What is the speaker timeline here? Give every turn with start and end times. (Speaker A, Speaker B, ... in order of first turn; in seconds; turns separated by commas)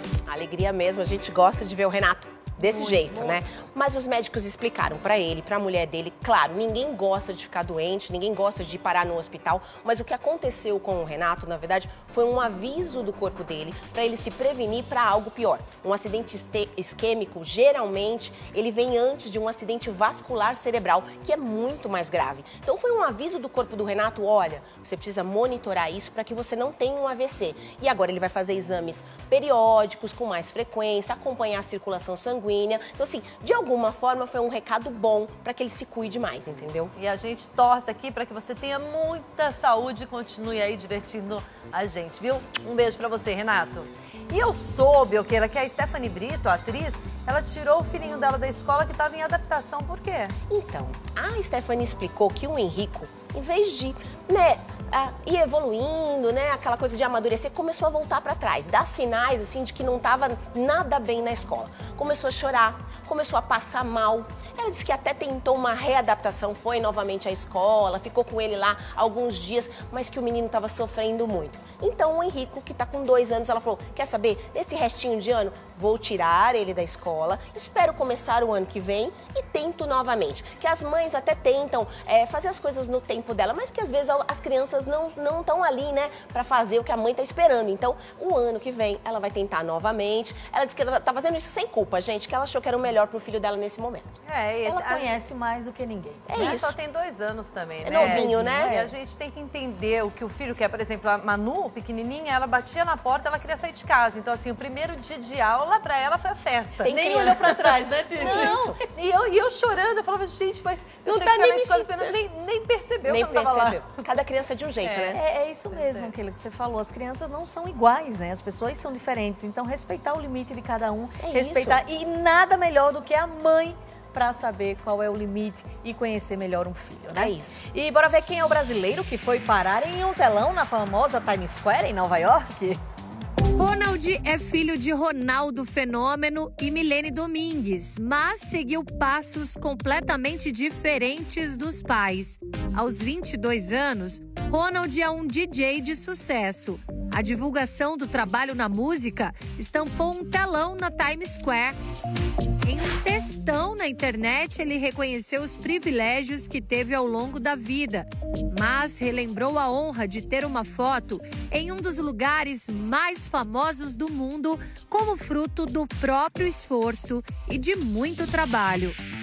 Speaker A: 0.3-36.9, Speaker B: 2.8-3.2, Speaker C: 2.8-3.3, Speaker B: 37.0-50.3, Speaker A: 50.5-94.1, Speaker B: 94.2-95.2, Speaker C: 94.7-96.7, Speaker A: 96.3-96.8, Speaker B: 96.4-114.0, Speaker A: 97.8-98.8, Speaker C: 97.9-98.9, Speaker A: 106.8-107.6, Speaker C: 106.8-108.7, Speaker A: 108.2-108.8, Speaker A: 111.1-112.2, Speaker A: 113.0-115.2, Speaker B: 114.8-116.1, Speaker C: 115.1-132.8, Speaker A: 121.2-121.8, Speaker A: 127.1-127.6, Speaker D: 133.6-151.8, Speaker D: 152.6-169.0